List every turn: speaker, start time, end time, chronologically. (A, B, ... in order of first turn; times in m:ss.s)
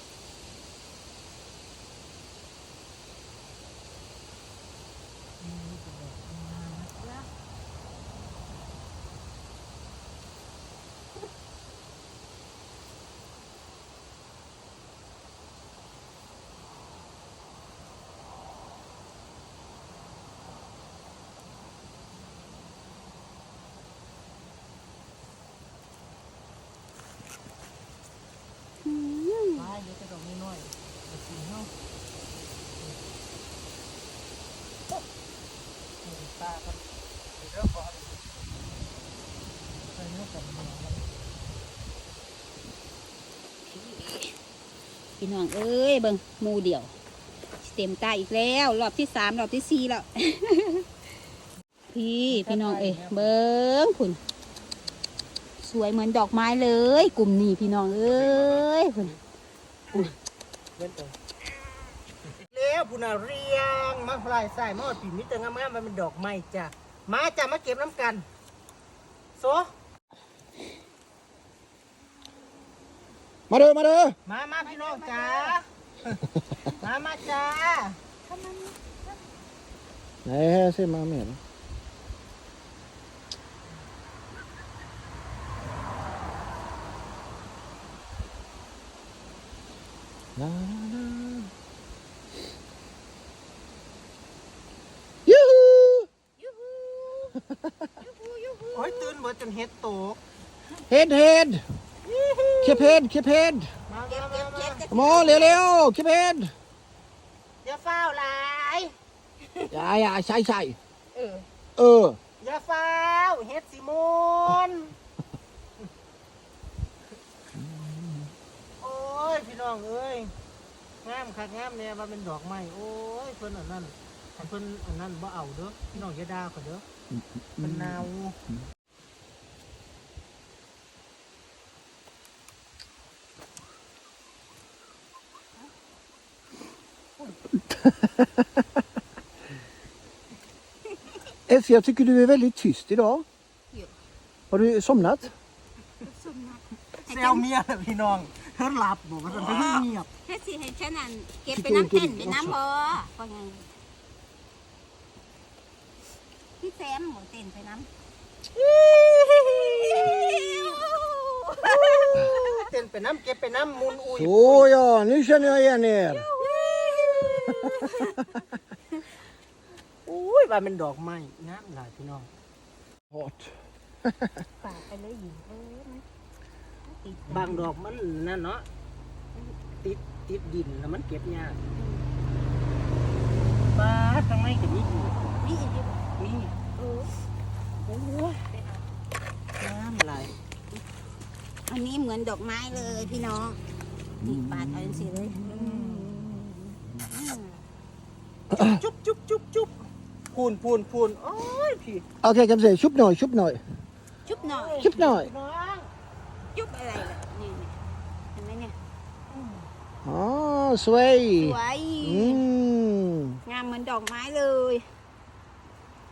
0:05.4-0:07.3 A
0:28.8-0:29.7 B
0:29.6-0:31.7 A
0:36.0-0:36.8 A
0:37.4-0:38.4 A
0:39.9-0:41.1 A
0:43.7-0:44.4 B
0:45.2-0:46.9 B
0:47.6-0:50.9 B
0:51.9-0:54.2 B
0:52.3-0:53.3 A
0:55.6-0:59.2 B
0:58.2-0:58.6 A
1:00.8-1:01.2 A
1:02.5-1:08.2 A
1:09.4-1:09.7 A
1:13.5-1:14.2 C
1:14.3-1:16.2 A
1:14.6-1:15.6 B
1:16.8-1:18.0 A
1:18.3-1:18.7 B
1:20.2-1:21.4 C
1:30.4-1:31.5 C
1:35.3-1:36.1 C
1:36.4-1:37.4 B
1:38.0-1:39.2 B
1:38.7-1:40.2 A
1:40.9-1:41.6 C
1:42.0-1:43.0 A
1:42.6-1:43.7 C
1:43.9-1:44.8 A
1:44.1-1:45.6 B
1:44.9-1:46.5 C
1:47.6-1:48.9 A
1:49.5-1:49.8 B
1:49.7-1:50.8 C
1:51.1-1:51.5 B
1:51.8-1:52.2 C
1:52.4-1:55.0 A
1:57.6-1:58.3 C
1:58.8-2:00.3 A
2:01.0-2:06.8 A
2:07.6-2:08.4 A
2:07.6-2:08.0 C
2:17.9-2:18.3 C
2:21.5-2:23.3 C
2:24.5-2:25.3 C
2:26.0-2:27.4 B
2:27.0-2:30.1 A
2:29.3-2:33.7 B
2:31.5-2:32.6 C
2:36.6-2:37.9 B
2:38.6-2:40.8 A
2:39.0-2:42.7 B
2:41.6-2:44.8 A
2:44.1-2:46.3 C
2:46.0-2:48.4 B
2:46.9-2:47.9 A
2:50.1-2:52.3 A
2:53.1-2:53.5 C
2:54.6-2:56.0 B
2:56.9-2:57.7 B
2:57.3-2:58.6 A
2:59.8-3:01.6 A
3:01.7-3:02.1 B
3:03.7-3:05.2 A
3:05.4-3:06.1 B
3:06.2-3:06.6 A
3:06.8-3:07.1 B
3:07.9-3:08.5 A
3:09.6-3:10.3 A
3:11.7-3:13.6 B
3:14.2-3:17.6 B
3:14.2-3:15.0 C
3:15.4-3:16.4 A
3:18.5-3:19.7 A
3:20.3-3:22.0 A
3:22.2-3:23.6 C
3:24.3-3:24.9 B
3:24.3-3:25.9 A
3:24.8-3:25.3 C
3:26.5-3:27.8 B
3:28.3-3:28.8 B
3:29.3-3:29.7 A
3:30.0-3:33.4 C
3:31.4-3:32.5 B
3:33.4-3:34.8 B